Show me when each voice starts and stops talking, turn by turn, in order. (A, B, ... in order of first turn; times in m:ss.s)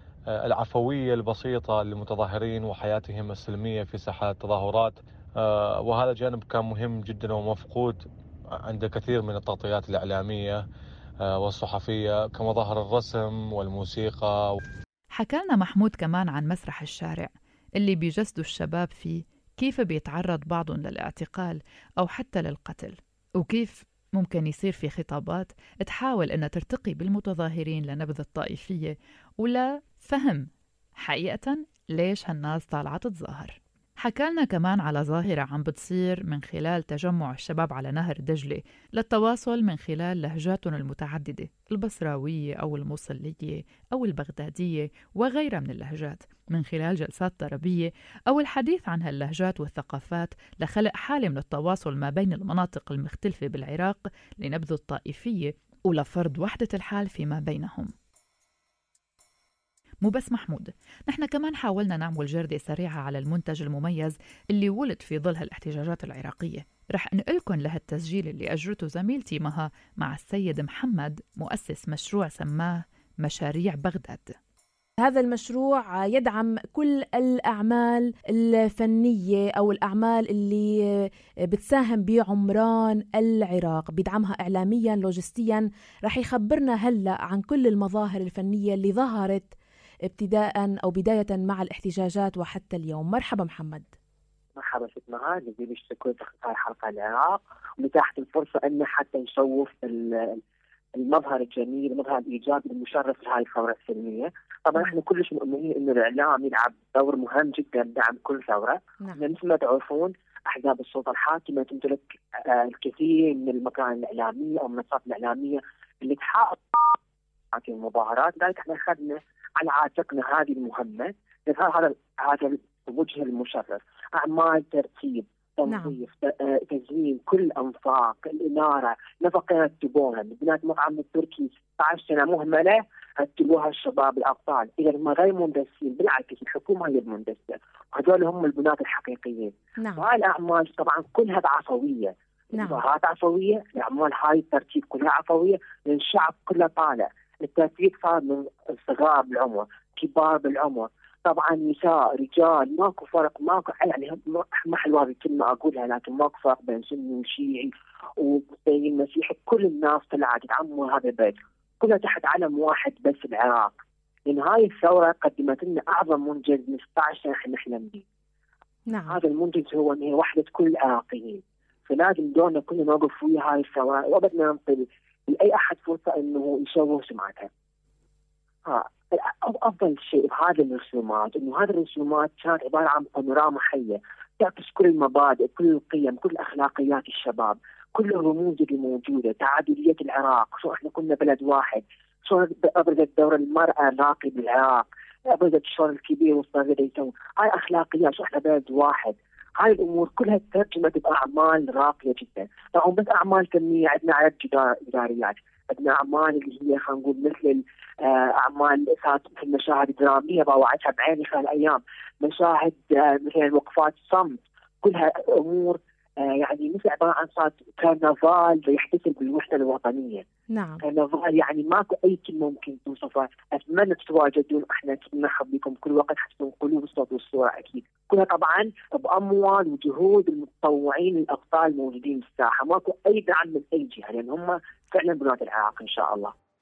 0:00.3-0:08.0 A
0:08.6-0:10.6 A
0:11.2-0:14.6 A
0:15.1-0:57.9 B
1:00.0-1:14.3 B
1:15.0-1:20.7 C
1:21.5-1:29.5 C
1:30.1-1:33.9 C
1:34.6-1:40.4 D
1:41.0-1:57.0 D
1:57.5-2:43.7 D
2:05.7-2:06.0 C
2:22.6-2:22.8 C
2:44.3-2:48.0 D
2:48.9-2:49.2 C
2:49.1-2:57.5 D
2:58.6-3:40.2 D
3:40.5-3:40.8 C
3:40.8-3:56.3 D